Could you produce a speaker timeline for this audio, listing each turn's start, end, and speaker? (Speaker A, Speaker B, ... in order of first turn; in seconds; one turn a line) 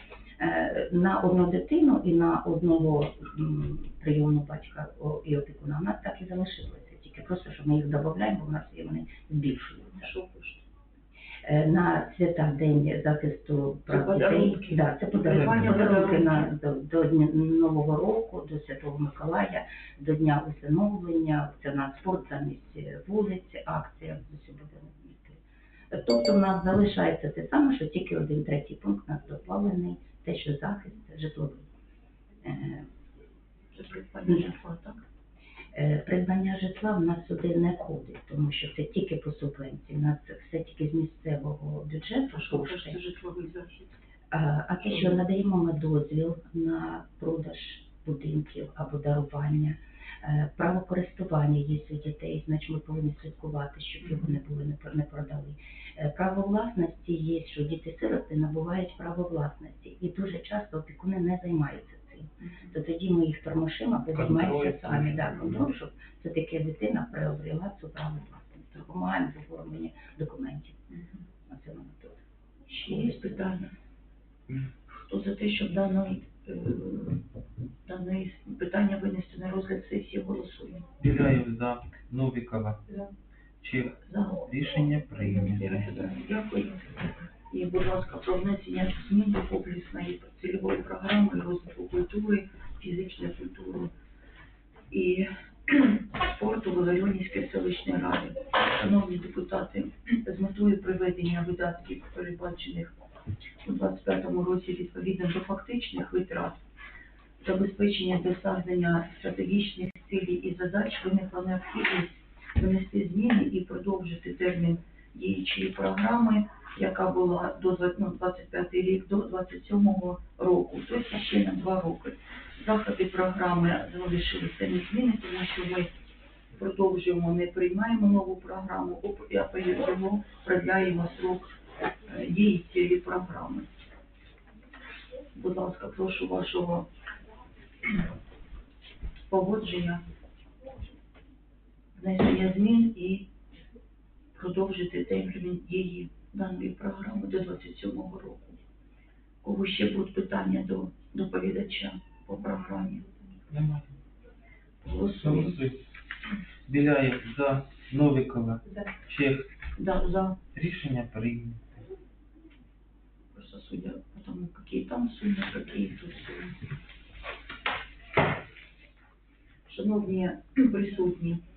Speaker A: 0.4-10.1
Speaker B: 9.9-10.6
Speaker A: 11.4-25.4
Speaker B: 13.9-16.5
Speaker C: 15.3-15.9
Speaker A: 25.9-31.6
Speaker A: 32.4-32.9
Speaker B: 33.7-35.0
Speaker A: 34.2-34.5
Speaker A: 35.7-43.0
Speaker B: 42.3-43.9
Speaker A: 44.3-70.8
Speaker B: 44.8-45.1
Speaker B: 54.0-54.3
Speaker B: 62.4-62.7
Speaker C: 64.1-65.7
Speaker B: 70.9-71.2
Speaker A: 71.5-72.2
Speaker B: 72.7-73.7
Speaker A: 72.9-73.2
Speaker B: 74.9-77.2
Speaker B: 77.8-80.9
Speaker C: 81.0-82.8
Speaker C: 83.6-85.9
Speaker B: 84.0-84.5
Speaker B: 85.1-86.9
Speaker B: 87.5-93.9
Speaker B: 94.9-103.0
Speaker B: 103.6-106.6
Speaker B: 107.4-125.9
Speaker B: 126.5-131.5
Speaker B: 132.1-133.7
Speaker B: 135.3-136.9
Speaker B: 139.3-140.0
Speaker B: 141.9-143.3
Speaker B: 144.3-148.6
Speaker B: 149.4-153.1
Speaker C: 153.5-153.9
Speaker B: 154.8-155.6
Speaker C: 155.1-155.8
Speaker C: 156.7-159.5
Speaker B: 159.7-160.4
Speaker C: 160.5-161.8
Speaker B: 163.3-166.6
Speaker B: 169.7-171.4